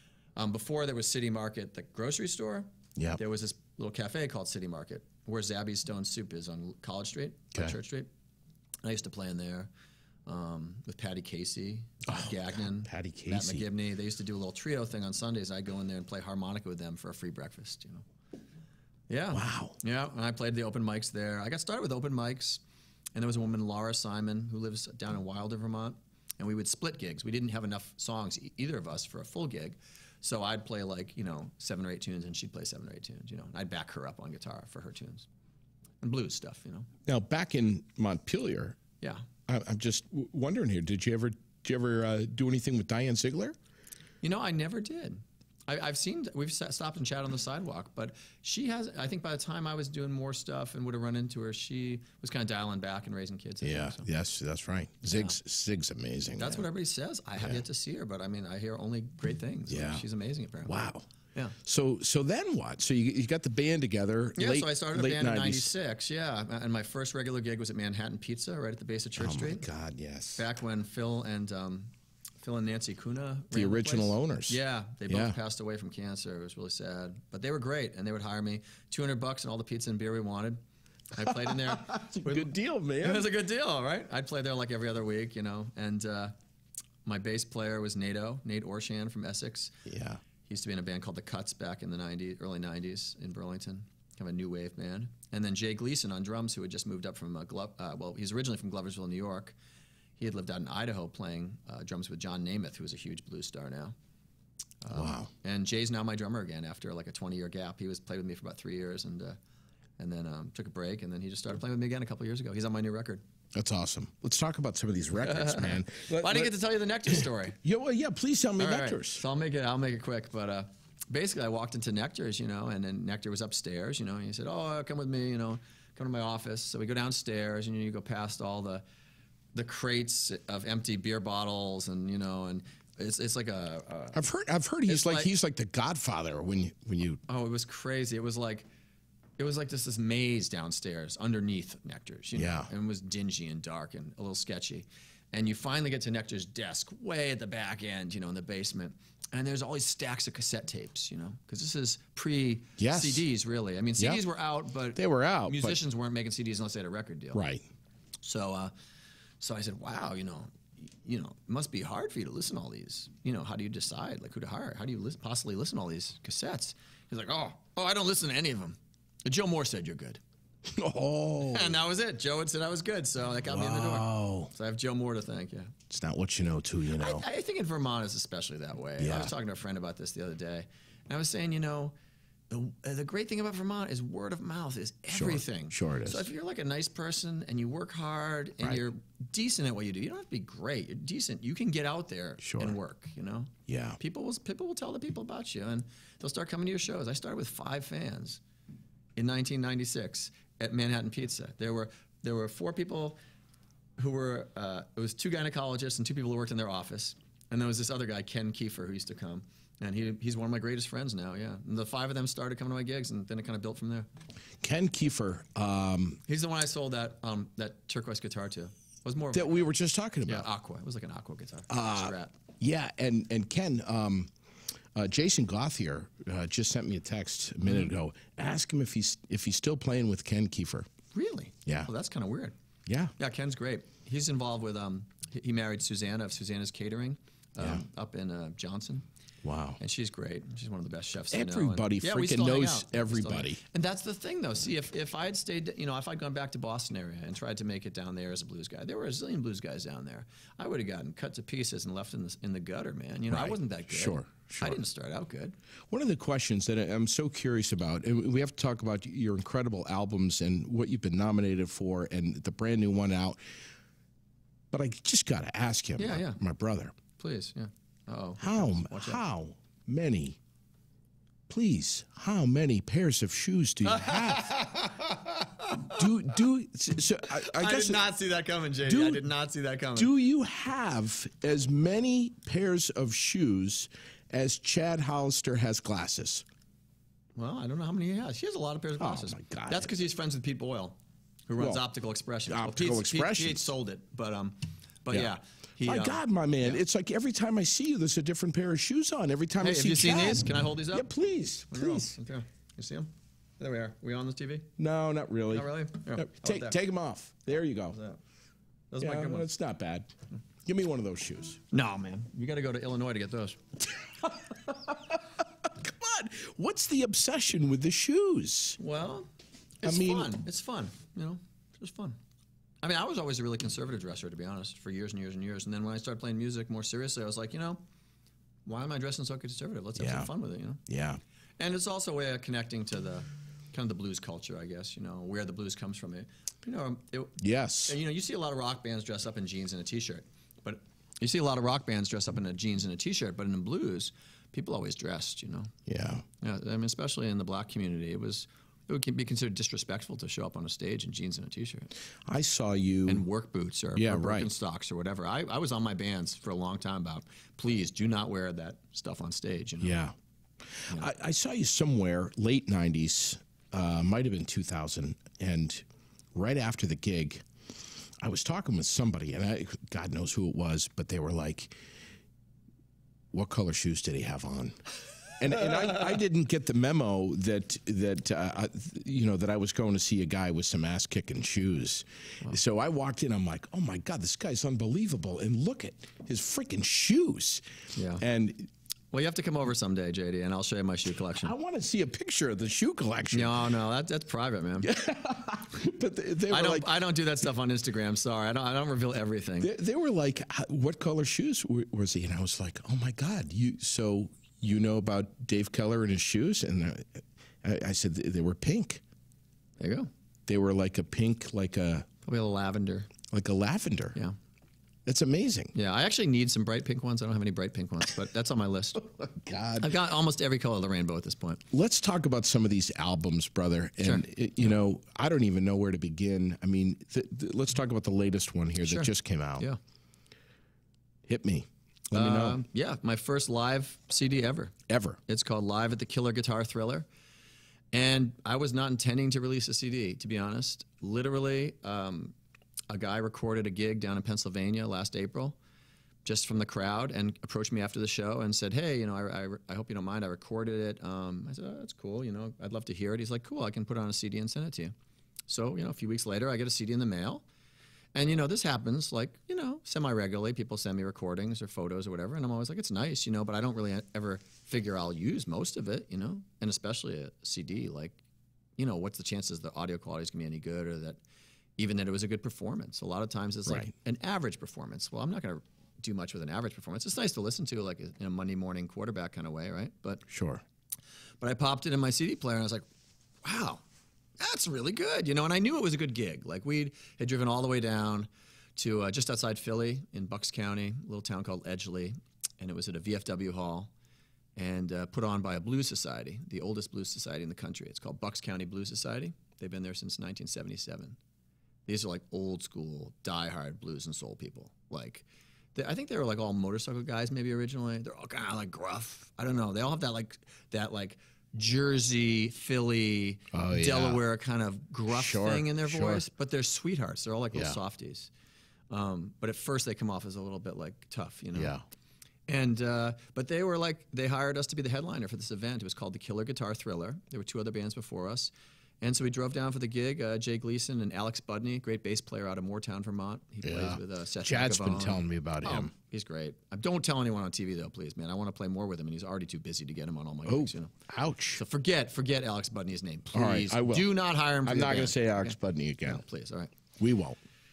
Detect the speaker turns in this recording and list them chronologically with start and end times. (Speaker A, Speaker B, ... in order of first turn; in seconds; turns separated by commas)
Speaker A: 0.4-8.1, Speaker A: 8.8-9.7, Speaker A: 10.3-18.1, Speaker B: 12.1-13.7, Speaker A: 19.1-22.6, Speaker B: 19.3-19.8, Speaker A: 23.1-35.3, Speaker A: 36.0-36.9, Speaker B: 37.1-38.8, Speaker A: 39.0-39.3, Speaker B: 39.5-43.5, Speaker A: 44.2-54.1, Speaker B: 53.6-56.7, Speaker A: 56.4-61.5, Speaker B: 59.7-60.0, Speaker B: 60.6-61.1, Speaker B: 61.6-65.7, Speaker A: 64.4-69.7, Speaker B: 69.2-70.4, Speaker A: 70.4-71.9, Speaker A: 72.4-80.6, Speaker B: 73.5-75.4, Speaker A: 81.1-86.3, Speaker B: 81.2-83.3, Speaker A: 87.0-89.8, Speaker B: 89.8-90.2, Speaker A: 90.4-99.6, Speaker A: 100.2-104.0, Speaker A: 104.8-109.4, Speaker B: 104.9-105.3, Speaker A: 110.0-113.2, Speaker B: 113.5-116.5, Speaker A: 115.2-117.6, Speaker B: 117.1-119.2, Speaker A: 118.6-128.8, Speaker A: 129.5-134.2, Speaker B: 134.1-137.2, Speaker A: 134.9-135.3, Speaker A: 137.3-138.7, Speaker A: 139.4-157.4, Speaker B: 142.3-142.7, Speaker B: 152.8-153.2, Speaker B: 155.0-155.8, Speaker B: 157.3-157.7, Speaker A: 158.2-158.7, Speaker A: 159.4-170.2, Speaker B: 170.6-171.8, Speaker A: 171.4-175.7, Speaker B: 173.5-174.5, Speaker B: 175.9-177.2, Speaker A: 177.0-182.0, Speaker B: 179.0-179.3, Speaker A: 182.5-198.4, Speaker B: 185.1-186.2, Speaker B: 192.4-192.8, Speaker B: 193.7-194.0, Speaker A: 199.2-203.2, Speaker A: 204.0-214.1, Speaker B: 214.6-216.2, Speaker A: 216.3-219.7, Speaker B: 219.3-220.5, Speaker A: 220.3-222.4, Speaker B: 221.7-224.3, Speaker B: 224.9-230.9, Speaker A: 227.7-227.9, Speaker A: 231.1-232.6, Speaker B: 232.9-233.1, Speaker A: 233.2-239.1, Speaker B: 237.6-237.8, Speaker B: 239.4-239.8, Speaker A: 239.8-255.6, Speaker B: 241.3-243.6, Speaker B: 253.3-254.8, Speaker B: 255.9-263.6, Speaker B: 264.7-266.9, Speaker A: 266.0-266.4, Speaker A: 267.2-269.2, Speaker B: 268.4-270.4, Speaker B: 271.5-274.7, Speaker A: 273.8-276.1, Speaker B: 275.9-278.1, Speaker A: 277.3-280.1, Speaker B: 278.9-279.2, Speaker B: 280.0-286.4, Speaker A: 287.4-291.0, Speaker B: 289.0-289.9, Speaker A: 291.5-296.8, Speaker B: 291.6-291.8, Speaker B: 292.5-293.7, Speaker B: 295.8-302.1, Speaker A: 299.6-301.1, Speaker A: 301.7-304.7, Speaker B: 304.8-308.0, Speaker A: 305.5-306.8, Speaker A: 307.9-308.2, Speaker A: 308.9-309.5, Speaker B: 309.0-310.1, Speaker B: 310.7-311.6, Speaker A: 311.7-313.6, Speaker B: 314.0-318.8, Speaker A: 318.8-319.3, Speaker A: 319.8-322.2, Speaker B: 319.8-320.4, Speaker A: 322.8-327.8, Speaker A: 328.7-330.8, Speaker B: 330.0-330.3, Speaker B: 330.9-331.2, Speaker A: 331.6-345.7, Speaker B: 337.4-338.0, Speaker B: 345.9-346.2, Speaker A: 346.4-351.9, Speaker B: 352.2-353.2, Speaker A: 353.1-360.0, Speaker B: 353.9-354.5, Speaker B: 359.8-367.5, Speaker B: 368.2-371.8, Speaker B: 373.3-374.8, Speaker B: 375.4-387.6, Speaker A: 387.9-388.2, Speaker B: 388.2-388.7, Speaker A: 389.1-391.5, Speaker B: 391.4-393.8, Speaker A: 393.3-394.9, Speaker B: 394.8-396.9, Speaker A: 396.5-399.7, Speaker B: 399.6-409.0, Speaker A: 409.8-410.1, Speaker B: 410.5-412.1, Speaker A: 412.2-413.1, Speaker B: 413.3-414.2, Speaker B: 415.1-415.7, Speaker A: 415.7-419.2, Speaker B: 419.2-419.9, Speaker A: 419.8-421.6, Speaker B: 421.7-429.7, Speaker A: 428.8-429.8, Speaker B: 431.3-432.6, Speaker A: 432.1-434.8, Speaker B: 434.9-435.2, Speaker A: 435.3-437.1, Speaker A: 437.9-442.4, Speaker A: 442.9-445.6, Speaker A: 446.2-454.9, Speaker A: 455.5-457.4, Speaker A: 458.1-468.2, Speaker A: 468.8-471.2, Speaker A: 471.8-480.2, Speaker B: 480.3-480.6, Speaker A: 481.4-482.9, Speaker A: 483.4-483.8, Speaker A: 484.4-493.9, Speaker A: 494.6-501.2, Speaker A: 501.9-518.3, Speaker B: 513.5-514.2, Speaker B: 515.1-516.2, Speaker B: 517.5-517.8, Speaker A: 518.9-521.8, Speaker B: 521.5-521.8, Speaker A: 522.5-540.9, Speaker B: 533.6-535.9, Speaker B: 540.5-541.6, Speaker A: 541.5-546.7, Speaker B: 543.3-546.2, Speaker B: 547.0-547.4